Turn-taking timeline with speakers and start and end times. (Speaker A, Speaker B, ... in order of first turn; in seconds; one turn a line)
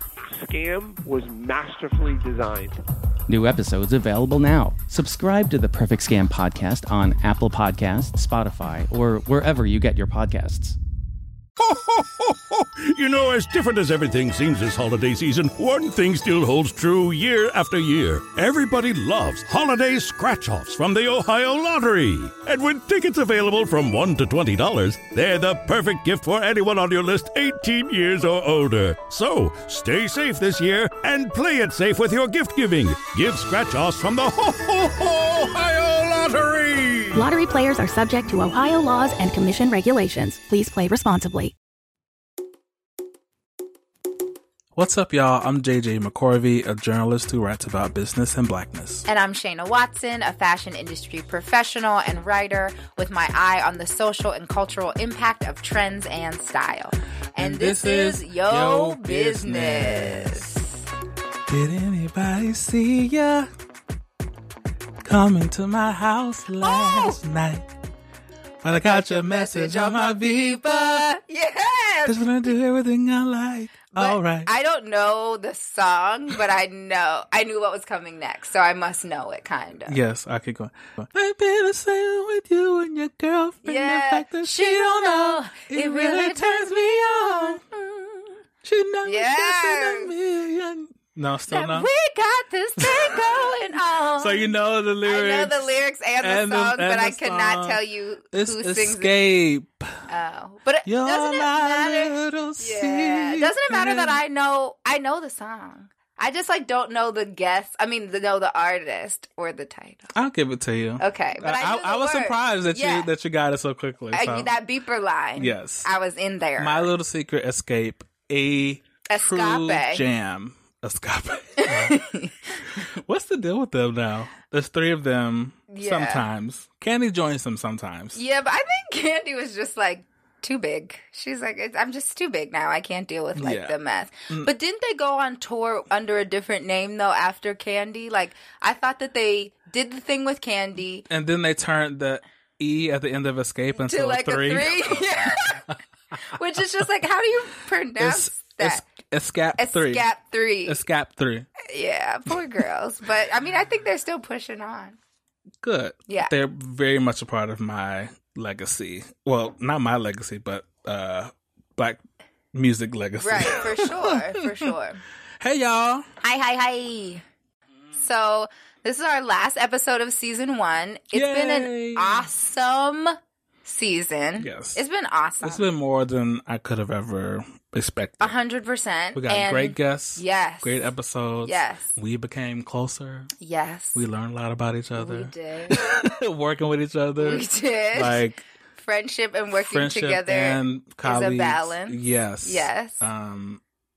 Speaker A: 0.3-2.8
Speaker B: 3.3-10.8
Speaker C: 11.6-37.3
Speaker D: 37.1-41.5
Speaker E: 44.8-49.1
Speaker F: 49.1-60.8
Speaker E: 57.4-60.4
Speaker E: 61.5-63.5
Speaker E: 65.0-67.7
Speaker F: 66.6-67.2
Speaker E: 68.6-71.0
Speaker F: 68.8-72.5
Speaker E: 72.1-74.5
Speaker F: 73.9-80.0
Speaker E: 79.9-87.6
Speaker F: 83.6-88.4
Speaker E: 88.6-91.9
Speaker F: 89.1-90.1
Speaker F: 91.5-94.5
Speaker E: 92.8-93.2
Speaker E: 94.2-95.7
Speaker F: 95.0-99.1
Speaker E: 96.2-97.8
Speaker E: 98.3-100.0
Speaker F: 100.1-110.1
Speaker E: 100.8-104.2
Speaker E: 110.2-114.5
Speaker F: 111.0-113.1
Speaker F: 114.1-116.9
Speaker E: 115.4-115.9
Speaker E: 116.6-122.1
Speaker F: 119.1-120.0
Speaker F: 121.6-122.3
Speaker E: 122.7-128.2
Speaker F: 125.7-126.2
Speaker F: 128.2-141.1
Speaker E: 133.4-133.8
Speaker E: 141.1-145.4
Speaker F: 143.8-145.6
Speaker F: 146.3-148.8
Speaker E: 148.0-150.1
Speaker F: 149.6-150.8
Speaker E: 150.7-151.5
Speaker F: 151.6-155.0
Speaker E: 155.6-162.0
Speaker E: 162.5-164.7
Speaker F: 163.2-165.0
Speaker E: 165.4-166.1
Speaker F: 166.2-167.2
Speaker F: 167.9-175.7
Speaker E: 171.1-172.3
Speaker E: 174.4-174.8
Speaker E: 175.4-178.3
Speaker F: 178.2-180.8
Speaker E: 179.2-183.3
Speaker F: 181.4-181.9
Speaker F: 183.4-184.0
Speaker E: 183.9-188.4
Speaker F: 185.0-185.8
Speaker F: 187.2-188.2
Speaker F: 188.8-193.1
Speaker E: 189.6-193.6